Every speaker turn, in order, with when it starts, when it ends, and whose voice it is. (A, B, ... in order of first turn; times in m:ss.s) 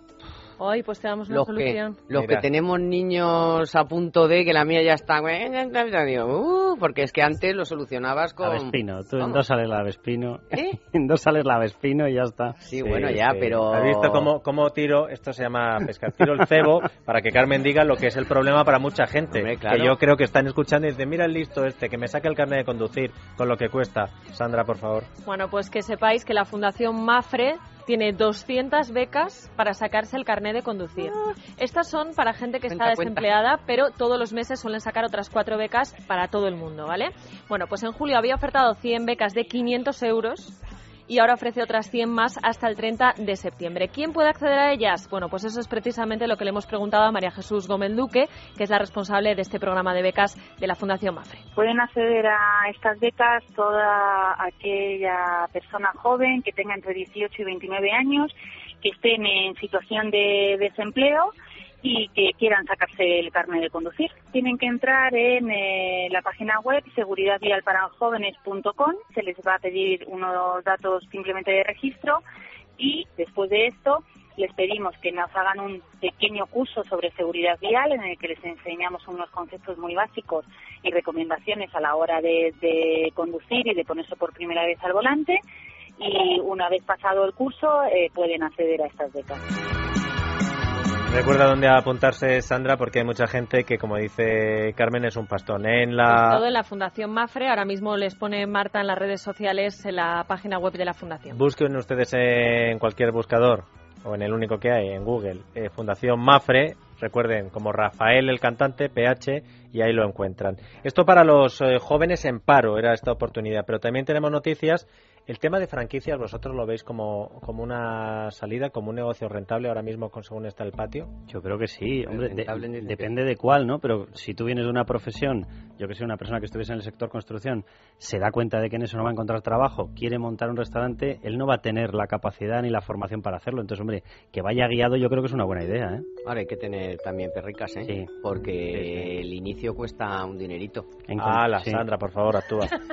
0:00.6-0:02.0 A
0:01.3-0:09.4 B
0:02.1-0:02.5 C
0:08.4-0:12.6 D
0:12.6-0:14.3 B
0:12.8-0:25.1 C
0:19.3-0:20.0 B
0:25.2-0:40.6 A
0:32.7-0:33.3 B
0:41.1-0:51.4 A
0:51.6-1:12.2 E
1:12.8-1:25.4 E
1:26.0-1:29.4 E
1:31.1-1:36.4 C
1:36.1-1:41.4 A
1:41.3-2:01.1 C
2:01.3-2:16.0 D
2:02.0-2:03.1 B
2:16.2-2:20.9 B
2:17.8-2:18.1 D
2:18.7-2:19.1 D
2:21.1-2:21.8 D
2:21.2-2:22.7 C